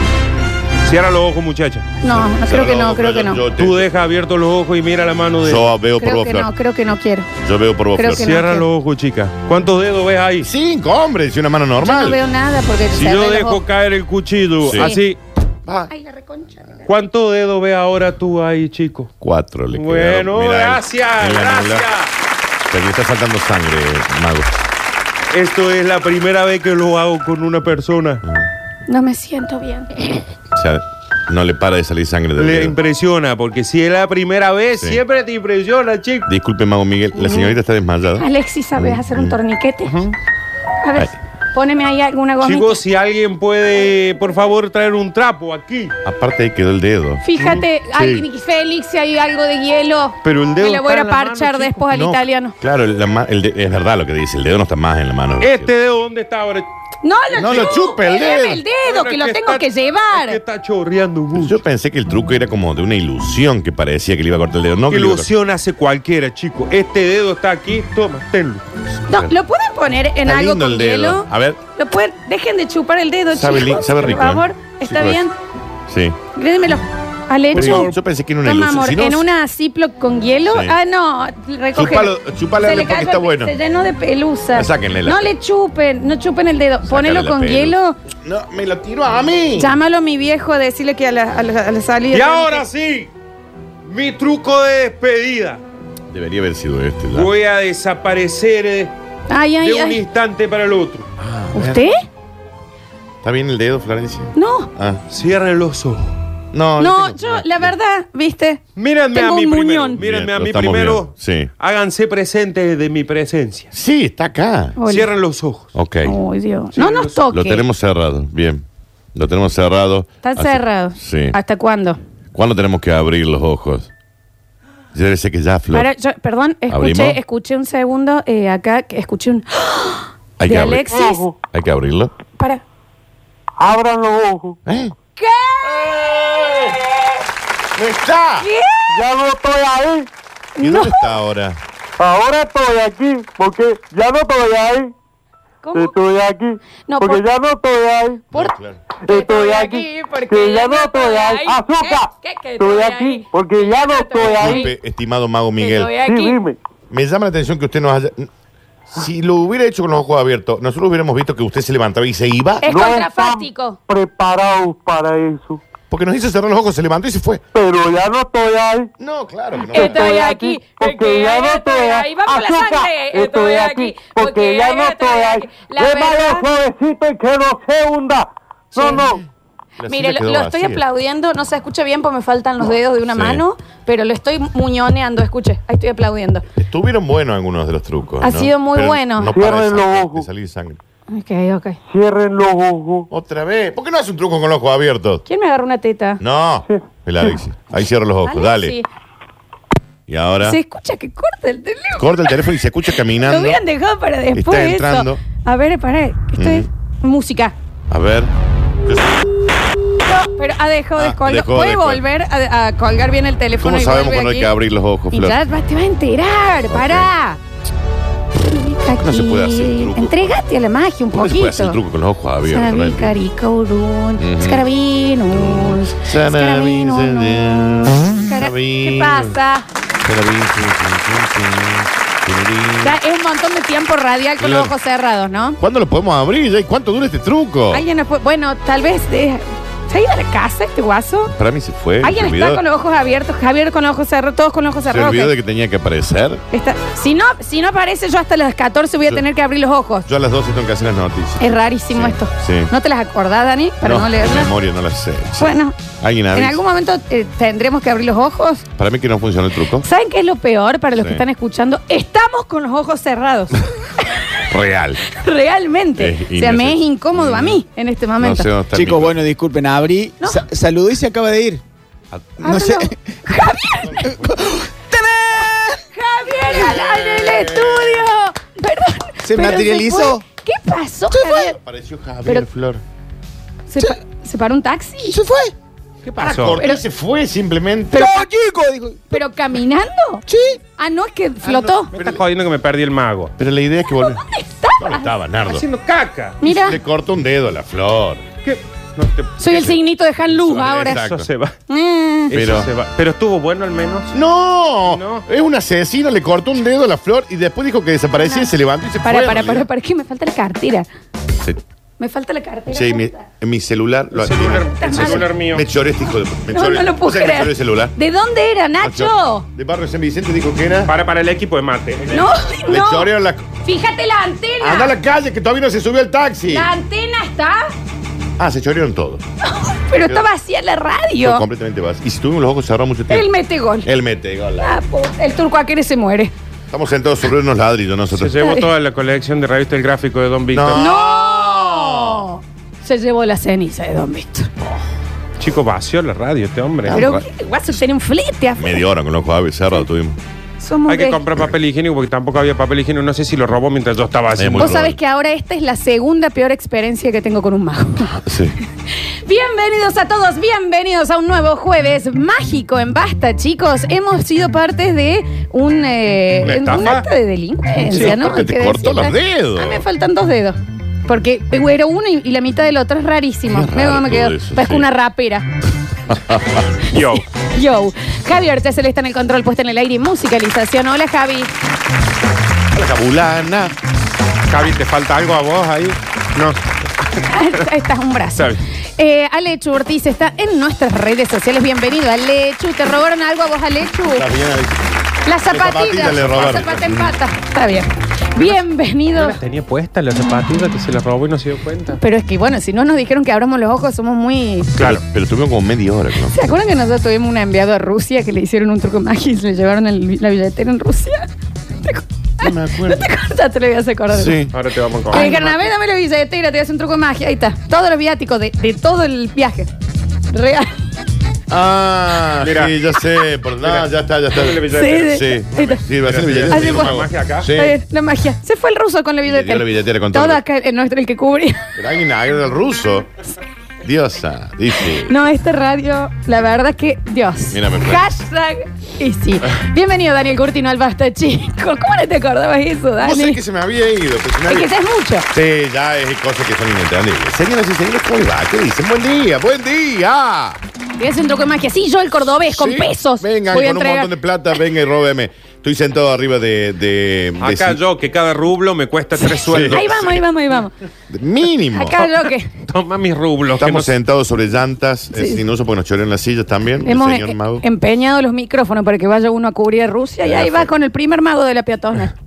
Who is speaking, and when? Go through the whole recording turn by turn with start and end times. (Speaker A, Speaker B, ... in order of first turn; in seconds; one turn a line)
Speaker A: 0.8-1.9
Speaker B: 2.0-3.4
Speaker C: 2.1-3.9
Speaker A: 3.6-5.7
Speaker C: 5.4-6.5
Speaker B: 6.0-7.3
Speaker C: 7.4-8.4
Speaker B: 8.0-8.7
Speaker A: 8.2-10.5
Speaker C: 10.4-12.2
Speaker B: 11.8-13.6
Speaker A: 12.9-15.2
Speaker C: 14.6-14.9
Speaker B: 14.7-15.0
Speaker C: 15.7-15.9
Speaker B: 15.9-16.8
Speaker A: 16.9-19.1
Speaker C: 19.2-21.8
Speaker A: 19.7-22.1
Speaker C: 22.7-24.5
Speaker A: 25.3-28.2
Speaker C: 28.2-28.5
Speaker B: 28.9-30.2
Speaker C: 30.5-32.7
Speaker A: 32.4-36.3
Speaker C: 36.3-39.4
Speaker B: 37.2-37.5
Speaker B: 38.2-40.0
Speaker A: 39.9-40.1
Speaker B: 40.8-42.8
Speaker A: 42.4-45.9
Speaker C: 46.0-47.2
Speaker B: 47.2-52.5
Speaker A: 47.4-48.2
Speaker A: 50.2-51.9
Speaker C: 51.9-55.7
Speaker A: 55.4-56.7
Speaker B: 57.0-60.4
Speaker C: 57.3-58.6
Speaker A: 58.8-61.6
Speaker C: 61.3-65.3
Speaker A: 64.9-68.6
Speaker C: 69.0-69.3
Speaker B: 69.1-75.3
Speaker C: 70.2-71.6
Speaker C: 73.3-75.2
Speaker C: 75.9-76.2
Speaker B: 76.3-88.0
Speaker C: 77.5-79.3
Speaker A: 77.5-77.9
Speaker C: 80.5-80.7
Speaker C: 81.7-83.5
Speaker C: 84.5-85.3
Speaker C: 86.8-89.8
Speaker B: 89.6-92.6
Speaker A: 92.1-93.1
Speaker A: 93.9-95.6
Speaker C: 96.1-97.3
Speaker A: 97.1-98.9
Speaker B: 99.3-100.0
Speaker A: 99.6-101.0
Speaker C: 101.2-101.9
Speaker B: 101.5-102.0
Speaker C: 103.2-105.0
Speaker B: 104.3-104.7
Speaker A: 105.1-106.1
Speaker C: 106.5-107.7
Speaker B: 106.8-108.6
Speaker A: 108.8-113.7
Speaker B: 109.1-110.0
Speaker C: 110.0-111.5
Speaker C: 113.7-114.8
Speaker B: 114.8-115.1
Speaker A: 114.8-115.7
Speaker C: 115.7-116.2
Speaker B: 116.0-117.6
Speaker A: 116.7-117.2
Speaker C: 117.3-121.4
Speaker B: 120.2-122.0
Speaker C: 122.3-123.9
Speaker C: 124.9-125.9
Speaker B: 125.7-131.2
Speaker C: 126.7-127.2
Speaker C: 130.4-130.9
Speaker D: 130.9-131.4
Speaker C: 131.5-132.1
Speaker D: 133.6-134.6
Speaker C: 134.7-134.9
Speaker B: 135.2-137.2
Speaker C: 135.6-136.8
Speaker C: 137.8-138.5
Speaker B: 138.4-138.9
Speaker D: 138.9-140.1
Speaker B: 140.6-141.1
Speaker C: 140.6-141.6
Speaker D: 142.0-144.9
Speaker B: 145.6-145.9
Speaker D: 145.7-148.3
Speaker B: 146.8-147.2
Speaker C: 148.3-148.8
Speaker D: 149.0-154.6
Speaker B: 149.1-154.7
Speaker C: 154.2-155.9
Speaker B: 155.6-156.4
Speaker D: 156.0-156.6
Speaker C: 156.9-158.3
Speaker C: 158.9-162.7
Speaker B: 162.6-163.8
Speaker D: 162.6-165.6
Speaker C: 165.9-167.4
Speaker D: 167.5-168.9
Speaker C: 169.0-170.1
Speaker B: 169.7-176.5
Speaker D: 169.7-179.2
Speaker B: 178.7-179.0
Speaker C: 179.0-179.2
Speaker C: 179.8-180.8
Speaker B: 179.9-186.4
Speaker C: 183.1-183.4
Speaker C: 186.6-190.8
Speaker B: 188.2-189.3
Speaker D: 189.3-190.3
Speaker B: 191.1-191.8
Speaker D: 191.9-193.1
Speaker C: 193.1-195.2
Speaker B: 195.2-196.2
Speaker C: 196.2-198.8
Speaker B: 198.2-198.8
Speaker C: 200.1-200.6
Speaker B: 200.4-207.5
Speaker C: 201.9-203.6
Speaker C: 204.3-205.2
Speaker C: 206.4-206.7
Speaker C: 207.9-208.3
Speaker C: 208.8-209.2
Speaker B: 210.0-214.5
Speaker C: 210.9-212.0
Speaker C: 213.6-215.4
Speaker B: 215.1-217.4
Speaker C: 216.7-217.1
Speaker B: 218.4-221.8
Speaker C: 218.9-220.4
Speaker C: 221.1-223.1
Speaker B: 222.4-227.4
Speaker C: 224.2-224.6
Speaker C: 225.3-229.4
Speaker B: 228.2-229.7
Speaker C: 230.0-233.0
Speaker B: 232.8-235.6
Speaker C: 234.4-234.7
Speaker C: 235.6-237.8
Speaker B: 237.7-241.3
Speaker C: 241.3-242.6
Speaker B: 242.0-245.3
Speaker C: 244.9-246.4
Speaker B: 246.5-250.1
Speaker C: 250.1-252.7
Speaker B: 251.4-254.5
Speaker C: 253.8-256.6
Speaker B: 255.4-255.8
Speaker B: 256.3-258.6
Speaker C: 258.8-259.9
Speaker B: 259.8-264.4
Speaker C: 261.0-261.2
Speaker C: 264.4-265.0
Speaker B: 265.0-268.5
Speaker C: 266.0-267.6
Speaker C: 268.2-269.2
Speaker E: 268.7-271.6
Speaker C: 272.1-272.6
Speaker B: 272.4-274.1
Speaker E: 272.4-272.9
Speaker C: 273.8-274.5
Speaker E: 274.1-275.8
Speaker B: 275.9-281.6
Speaker C: 276.5-278.1
Speaker E: 279.2-280.2
Speaker E: 281.1-281.5
Speaker C: 281.4-282.8
Speaker B: 283.7-285.2
Speaker E: 285.1-285.5
Speaker A: 286.0-286.6
Speaker C: 286.2-288.2
Speaker E: 287.9-289.2
Speaker B: 289.1-290.2
Speaker E: 290.3-290.6
Speaker B: 290.8-291.9
Speaker C: 291.4-292.2
Speaker A: 291.9-293.3
Speaker C: 293.4-294.2
Speaker B: 293.9-295.1
Speaker C: 294.8-295.6
Speaker A: 295.4-296.4
Speaker B: 296.4-296.8
Speaker C: 296.4-298.2
Speaker A: 298.4-301.5
Speaker B: 299.4-301.0
Speaker C: 300.6-301.3
Speaker B: 301.7-302.3
Speaker A: 302.3-304.1
Speaker C: 302.3-302.7
Speaker C: 304.1-309.6
Speaker A: 304.9-305.2
Speaker B: 308.2-308.5
Speaker B: 309.0-310.9
Speaker B: 312.0-313.2
Speaker C: 312.7-317.9
Speaker A: 314.1-315.7
Speaker B: 314.7-315.3
Speaker B: 316.5-319.4
Speaker C: 318.8-320.9
Speaker A: 320.9-322.2
Speaker B: 322.1-323.1
Speaker C: 322.7-323.5
Speaker B: 323.6-324.9
Speaker C: 324.6-326.7
Speaker B: 326.5-327.7
Speaker C: 328.4-329.2
Speaker B: 329.4-331.4
Speaker C: 330.0-330.3
Speaker C: 331.2-333.3
Speaker B: 333.1-333.9
Speaker C: 333.8-334.8
Speaker B: 334.6-336.3
Speaker C: 336.7-338.5
Speaker A: 338.1-340.9
Speaker C: 340.5-342.2
Speaker B: 340.8-344.5
Speaker A: 345.4-347.1
Speaker C: 346.8-347.8
Speaker B: 346.9-348.8
Speaker C: 348.6-350.2
Speaker B: 350.6-351.2
Speaker A: 350.9-354.9
Speaker C: 354.4-355.0
Speaker B: 354.6-358.2
Speaker C: 358.0-358.6
Speaker B: 359.0-375.5
Speaker A: 366.4-367.1
Speaker C: 367.9-369.8
Speaker C: 373.5-374.9
Speaker C: 376.1-376.7
Speaker A: 376.9-377.2
Speaker B: 377.3-381.5
Speaker C: 382.7-383.8
Speaker A: 384.5-386.6
Speaker B: 387.2-394.3
Speaker A: 388.3-388.6
Speaker C: 394.1-394.9
Speaker B: 395.2-399.4
Speaker C: 395.5-397.1
Speaker A: 399.1-402.0
Speaker B: 402.0-404.8
Speaker A: 404.8-405.0
Speaker C: 404.8-406.4
Speaker B: 406.2-411.3
Speaker B: 411.8-414.4
Speaker C: 412.4-413.1
Speaker C: 414.1-414.6
Speaker A: 414.5-415.6
Speaker B: 415.1-419.7
Speaker B: 420.3-420.7
Speaker C: 421.5-427.8
Speaker A: 422.4-422.8
Speaker A: 423.6-427.5
Speaker B: 424.7-425.8
Speaker B: 426.5-427.0
Speaker B: 427.5-431.7
Speaker C: 429.2-430.4
Speaker C: 431.8-433.1
Speaker C: 433.8-435.1
Speaker B: 435.0-443.4
Speaker C: 437.5-438.1
Speaker C: 443.0-444.7
Speaker B: 444.5-445.3
Speaker C: 445.3-450.6
Speaker B: 451.0-454.1
Speaker C: 452.3-457.8
Speaker A: 457.4-460.2
Speaker C: 459.4-460.2
Speaker B: 459.6-460.7
Speaker C: 461.1-462.0
Speaker B: 461.7-462.5
Speaker A: 462.0-463.9
Speaker C: 463.6-467.6
Speaker B: 465.1-465.4
Speaker B: 466.8-472.1
Speaker C: 470.2-470.7